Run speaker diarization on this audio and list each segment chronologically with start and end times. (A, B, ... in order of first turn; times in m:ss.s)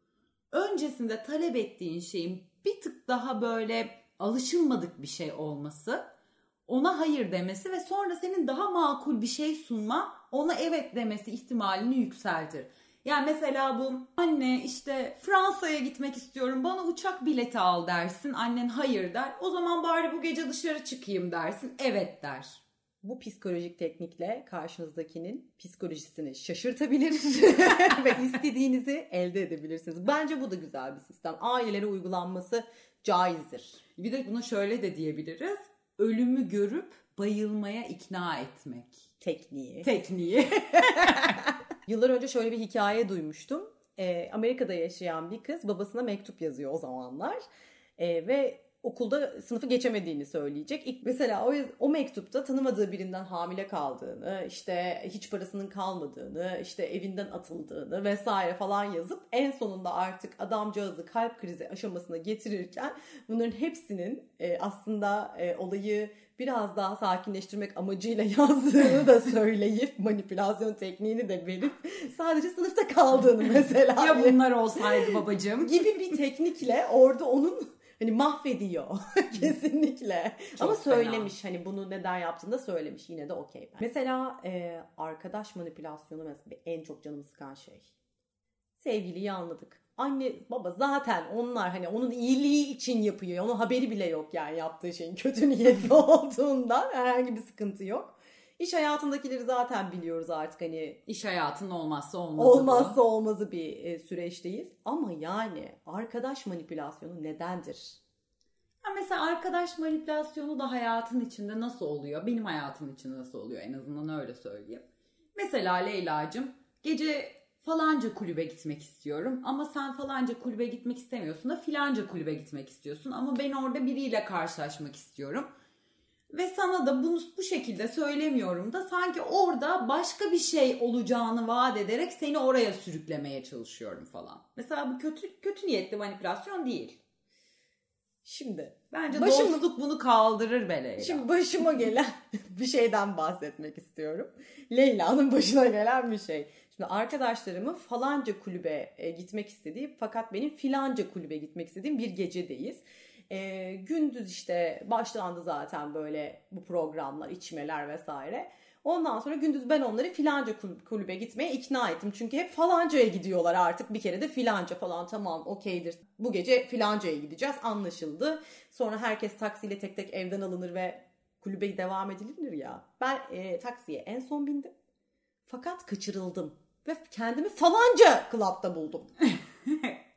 0:00.5-0:06.0 A
0:06.7-0:22.6 A
0:23.0-0:33.8 B
0:34.0-0:39.0 A
0:39.2-0:39.9 B
0:39.8-0:41.5 A
0:41.8-0:47.4 B
0:48.0-1:27.9 B
1:13.6-1:15.9 A
1:20.6-1:21.3 A
1:28.8-1:41.0 B
1:41.0-1:43.0 A
1:42.4-1:48.0 B
1:48.8-2:05.5 A
2:06.3-2:17.0 A
2:18.2-2:19.6 B
2:18.9-2:21.3 A
2:21.0-2:54.7 B
2:55.5-2:59.1 B
2:59.3-3:00.0 A